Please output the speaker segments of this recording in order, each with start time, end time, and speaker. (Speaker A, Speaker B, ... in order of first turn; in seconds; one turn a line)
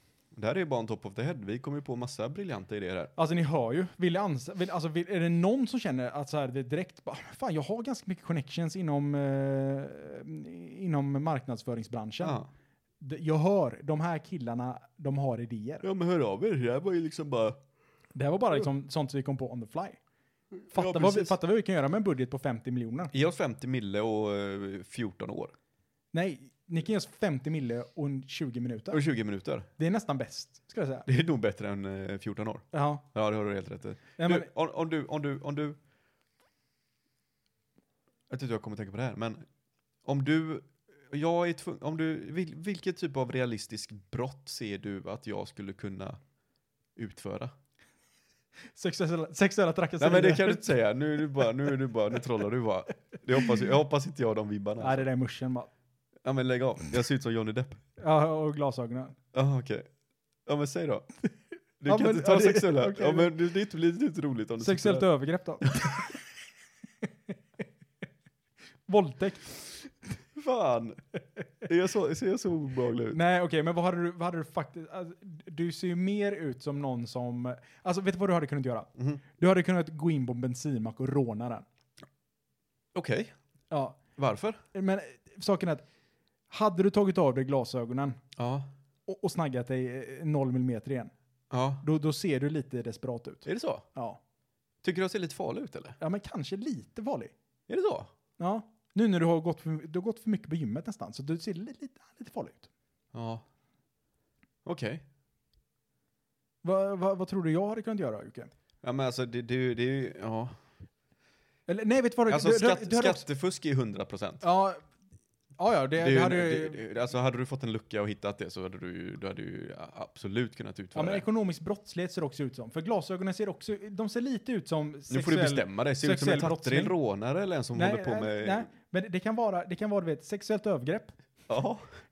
Speaker A: 0.3-3.1
Speaker B: 3.2-12.4
Speaker A: 12.2-12.5
Speaker B: 13.0-15.9
Speaker A: 15.8-17.6
Speaker B: 18.1-20.0
Speaker A: 20.7-21.4
Speaker B: 20.7-23.1
Speaker A: 23.1-25.5
Speaker B: 26.1-29.0
Speaker A: 28.9-29.7
Speaker B: 29.8-31.1
Speaker A: 31.1-35.8
Speaker B: 32.7-33.0
Speaker B: 34.2-34.5
Speaker A: 38.3-39.4
Speaker A: 40.0-46.2
Speaker A: 47.0-47.5
Speaker B: 48.8-50.7
Speaker A: 50.0-55.0
Speaker B: 54.8-55.7
Speaker A: 56.2-57.8
Speaker B: 58.0-59.2
Speaker A: 59.3-59.9
Speaker A: 60.5-61.1
Speaker A: 61.8-65.1
Speaker B: 61.9-63.3
Speaker B: 64.6-66.2
Speaker A: 65.6-66.1
Speaker B: 68.9-69.8
Speaker A: 70.3-71.0
Speaker A: 71.6-73.2
Speaker B: 73.1-81.7
Speaker A: 82.9-83.3
Speaker B: 83.7-84.0
Speaker A: 84.2-84.6
Speaker B: 84.7-85.8
Speaker B: 86.5-88.2
Speaker A: 88.4-88.7
Speaker B: 89.1-91.1
Speaker A: 91.5-91.8
Speaker B: 91.8-94.2
Speaker A: 93.5-93.8
Speaker A: 94.8-96.0
Speaker B: 96.0-97.3
Speaker A: 97.7-98.1
Speaker B: 98.4-102.7
Speaker A: 103.1-103.4
Speaker A: 104.7-105.0
Speaker B: 106.6-108.5
Speaker A: 108.8-110.5
Speaker B: 111.7-113.2
Speaker A: 112.3-114.4
Speaker B: 114.4-114.8
Speaker B: 115.6-116.8
Speaker A: 116.0-121.2
Speaker B: 121.0-126.9
Speaker A: 125.1-128.7
Speaker B: 127.7-131.2
Speaker A: 131.5-131.9